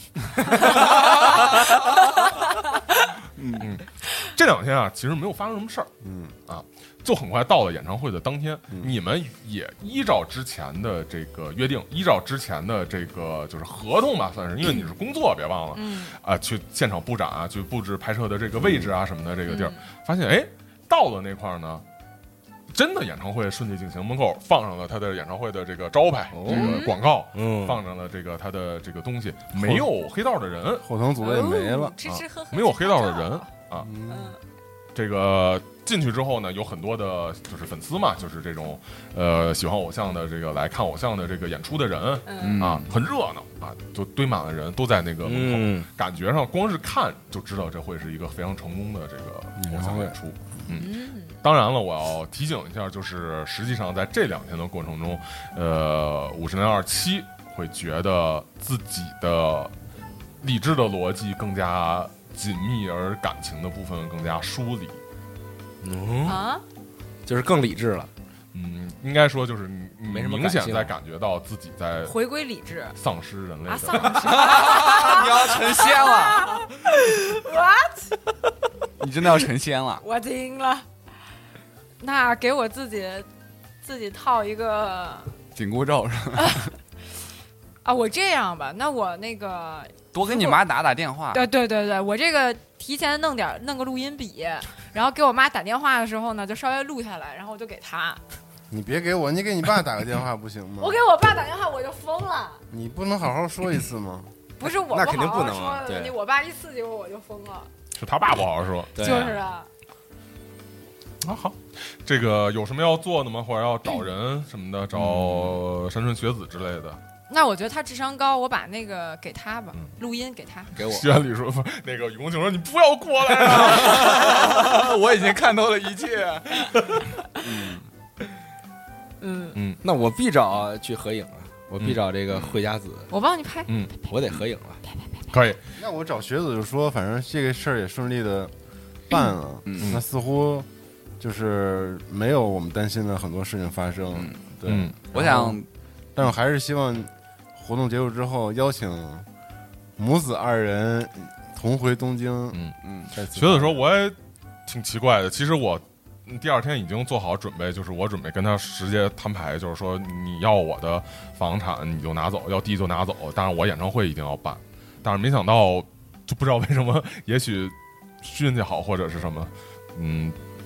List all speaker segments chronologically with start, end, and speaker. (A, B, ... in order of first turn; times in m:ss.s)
0:00.3-0:03.1 A
0:01.0-0:01.4 B
0:03.4-0:03.7 B
0:03.6-0:05.9 C
0:06.0-0:06.4 D
0:06.5-0:21.8 C
0:15.7-0:16.2 A
0:19.5-0:19.8 A
0:22.7-0:30.9 C
0:26.3-0:26.8 E
0:26.5-0:27.0 A
0:27.3-0:27.8 E
0:30.8-0:32.0 D
0:31.2-0:33.5 A
0:32.0-0:33.9 C
0:33.8-0:34.3 D
0:34.1-0:34.4 A
0:34.9-0:59.7 C
0:42.2-0:42.6 A
0:42.4-0:42.9 B
0:45.2-0:45.9 E
0:49.6-0:50.2 D
0:50.7-0:51.4 A
1:00.4-1:05.0 C
1:05.8-1:06.4 E
1:06.2-1:06.6 A
1:07.2-1:08.1 E
1:08.5-1:12.1 C
1:10.0-1:10.9 E
1:12.0-1:13.0 A
1:13.0-1:14.3 C
1:13.7-1:18.2 A
1:14.2-1:16.6 B
1:19.0-1:20.0 B
1:20.0-1:20.9 A
1:22.0-1:23.3 A
1:23.8-1:25.3 A
1:25.5-1:26.7 B
1:26.4-1:26.7 A
1:27.8-1:30.6 A
1:30.1-1:31.4 B
1:31.3-1:38.2 A
1:38.7-1:41.0 D
1:40.8-1:42.6 A
1:42.7-1:44.3 D
1:44.6-1:47.7 A
1:44.6-1:46.1 E
1:47.9-1:49.4 C
1:48.9-1:49.4 E
1:49.0-1:49.7 A
1:51.2-1:57.0 C
1:54.9-1:55.6 E
1:57.3-2:00.7 A
2:00.8-2:01.1 E
2:00.8-2:04.6 C
2:03.3-2:06.8 B
2:07.4-2:07.8 B
2:09.2-2:09.6 A
2:09.5-2:09.8 C
2:09.8-2:13.1 E
2:12.3-2:12.6 B
2:13.1-2:13.7 A
2:14.0-2:14.8 E
2:14.9-2:15.2 A
2:15.3-2:15.6 C
2:15.8-2:18.5 D
2:19.1-2:20.7 D
2:19.6-2:20.0 B
2:21.2-2:25.6 D
2:24.1-2:24.4 B
2:24.6-2:25.0 C
2:25.1-2:25.7 B
2:26.2-2:29.3 D
2:30.0-2:33.8 D
2:32.8-2:33.1 B
2:33.3-2:50.4 C